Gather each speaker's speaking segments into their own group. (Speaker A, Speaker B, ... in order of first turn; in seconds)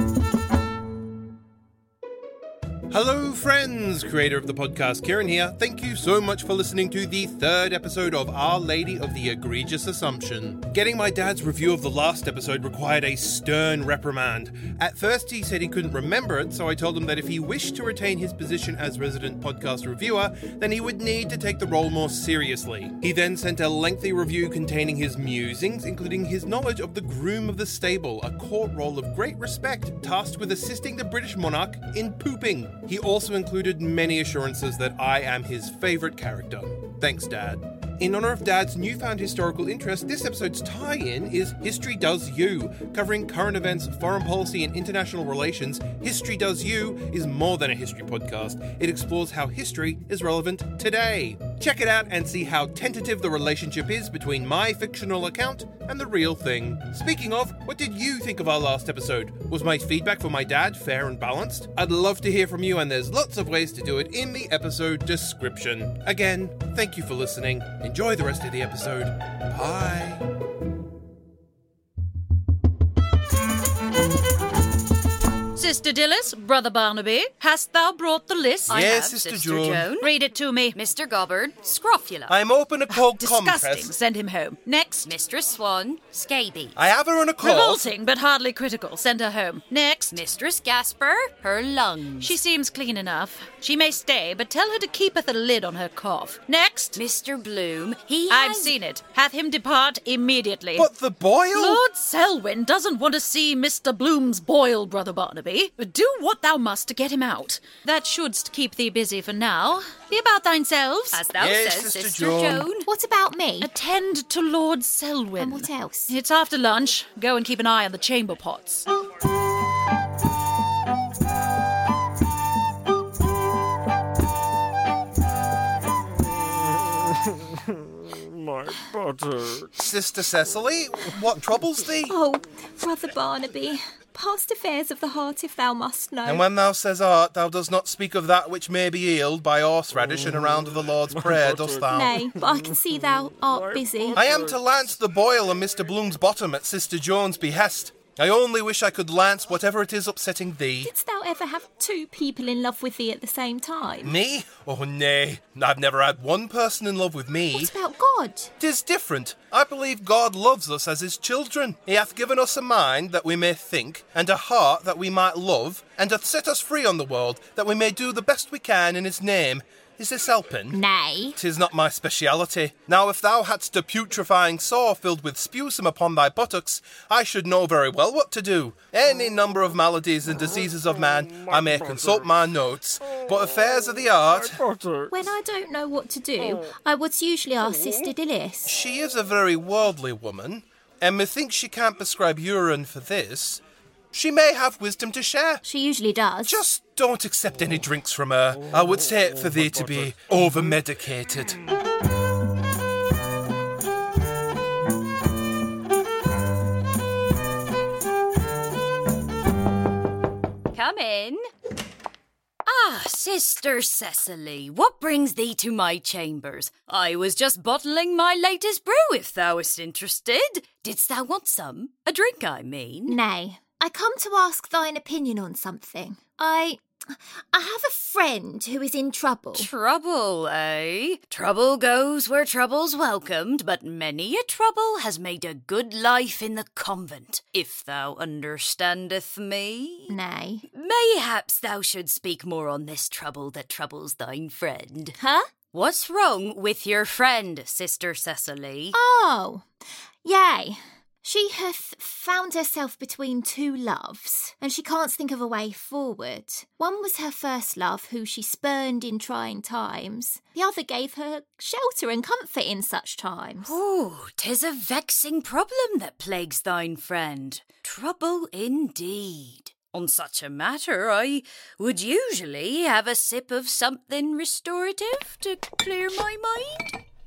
Speaker A: 2.9-70.3, 78.7-79.9, 82.3-83.9, 86.8-87.8, 100.8-101.8, 111.4-112.7, 129.7-132.2, 136.2-142.2, 144.2-150.9, 154.0-157.7, 158.6-170.8, 171.4-184.7, 188.7-195.6, 196.4-201.6
Speaker B: 75.5-78.9, 80.0-80.8, 82.9-85.1, 87.4-90.2, 92.2-97.0, 98.3-100.9, 101.5-111.2, 113.6-118.9
Speaker C: 78.7-80.1, 80.8-82.3, 85.0-86.8, 90.1-92.4, 97.0-98.8, 111.1-112.9, 210.7-211.4, 212.7-223.2, 229.5-240.2, 240.7-245.2, 245.7-249.0, 263.6-277.0
Speaker D: 112.8-113.7, 115.4-116.1, 132.1-136.5, 141.9-144.3, 150.8-154.2, 157.5-158.5, 170.7-171.4, 185.1-188.8, 195.6-196.7, 223.1-229.7, 240.1-240.7, 245.2-245.5, 248.9-249.7, 250.2-263.8